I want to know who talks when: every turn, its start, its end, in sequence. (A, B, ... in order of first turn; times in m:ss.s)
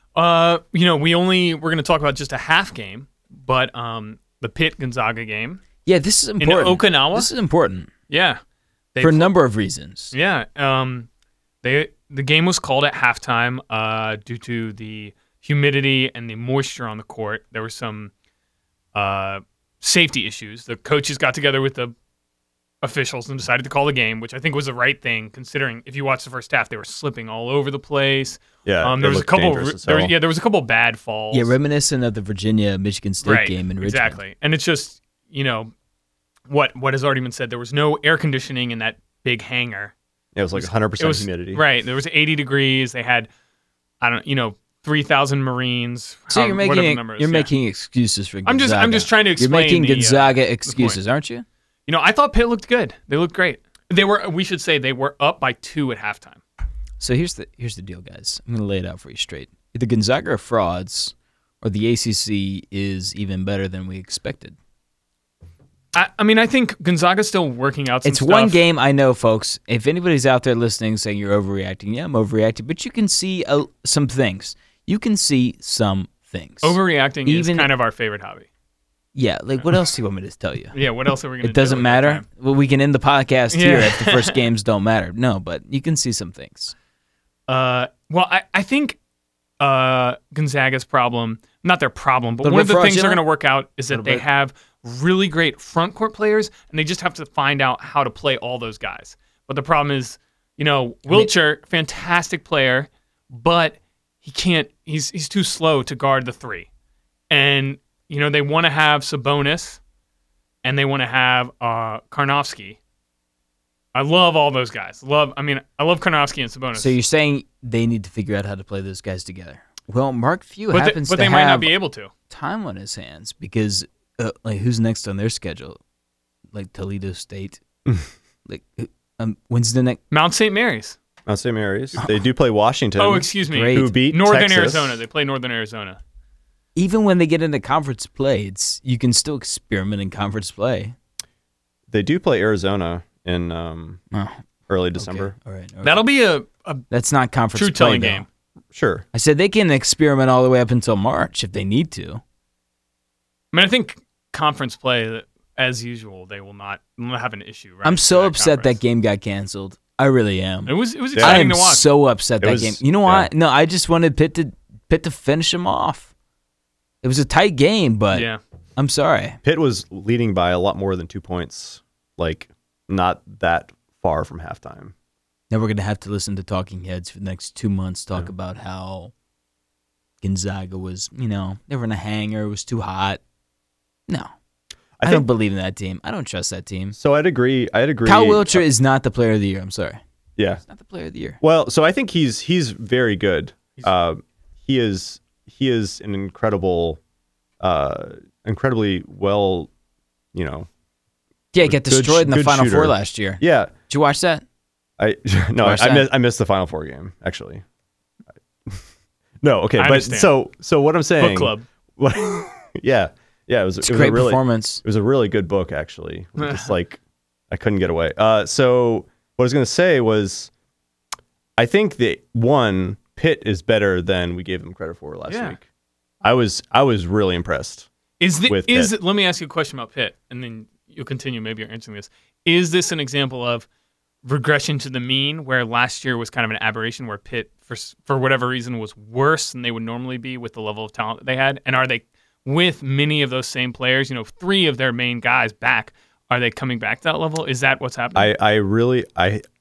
0:00.2-0:05.6 A
0:05.8-0:07.9 B
0:06.4-0:07.3 A
0:08.1-0:08.4 A
0:08.9-0:09.3 A
0:09.0-0:10.1 B
0:10.1-0:11.1 A
0:11.6-0:18.1 A
0:18.9-0:21.9 A
0:22.8-0:31.5 A
0:28.6-0:30.1 C
0:31.3-0:34.2 B
0:33.2-0:35.7 A
0:36.5-0:39.9 A
0:40.4-0:41.6 C
0:40.6-0:43.3 A
0:44.0-0:47.5 A
0:46.3-0:51.4 B
0:48.5-0:51.0 A
0:51.9-0:56.4 A
0:57.0-1:04.6 B
1:05.9-1:08.6 A
1:08.0-1:17.7 B
1:16.6-1:18.5 A
1:19.2-1:20.8 B
1:20.7-1:22.2 A
1:21.4-1:26.7 B
1:23.5-1:24.4 A
1:27.5-1:29.0 A
1:29.6-1:46.7 A
1:32.4-1:33.2 B
1:33.9-1:34.2 B
1:47.3-1:49.8 A
1:50.6-1:52.8 A
1:53.9-1:56.9 A
1:56.8-2:01.8 B
2:00.7-2:02.1 A
2:02.3-2:05.8 B
2:06.5-2:07.6 B
2:08.5-2:10.0 B
2:10.1-2:11.0 A
2:11.3-2:15.0 C
2:13.0-2:16.0 A
2:13.5-2:14.0 B
2:16.8-2:21.0 B
2:21.9-2:24.0 C
2:24.1-2:24.4 B
2:24.7-2:25.3 C
2:25.0-2:26.0 B
2:25.8-2:26.8 A
2:26.9-2:28.2 B
2:27.6-2:28.3 A
2:28.7-2:29.1 C
2:29.1-2:32.2 B
2:33.5-2:38.8 A
2:37.8-2:46.1 B
2:40.7-2:41.8 A
2:41.2-2:41.5 C
2:42.4-2:43.3 C
2:47.0-2:49.4 B
2:48.1-2:48.4 A
2:49.4-2:54.9 C
2:55.5-2:59.1 B
3:00.2-3:03.2 B
3:04.1-3:04.3 B
3:05.0-3:05.3 C
3:05.0-3:07.0 B
3:07.0-3:08.6 C
3:08.1-3:10.0 B
3:10.4-3:10.6 C
3:10.6-3:11.4 B
3:11.4-3:17.0 C
3:17.6-3:19.7 C
3:20.3-3:20.7 C
3:21.5-3:24.4 B
3:21.6-3:23.7 C
3:25.0-3:27.6 C
3:25.6-3:26.1 B
3:29.4-3:37.0 C
3:29.8-3:30.3 A
3:31.2-3:31.7 A
3:33.8-3:34.8 B
3:36.4-3:36.7 A
3:37.5-3:40.5 C
3:41.6-3:45.6 C
3:45.3-3:45.6 A
3:46.2-3:47.9 C
3:48.2-3:53.7 A
3:48.5-3:48.9 C
3:54.2-4:08.3 A
4:08.2-4:09.4 C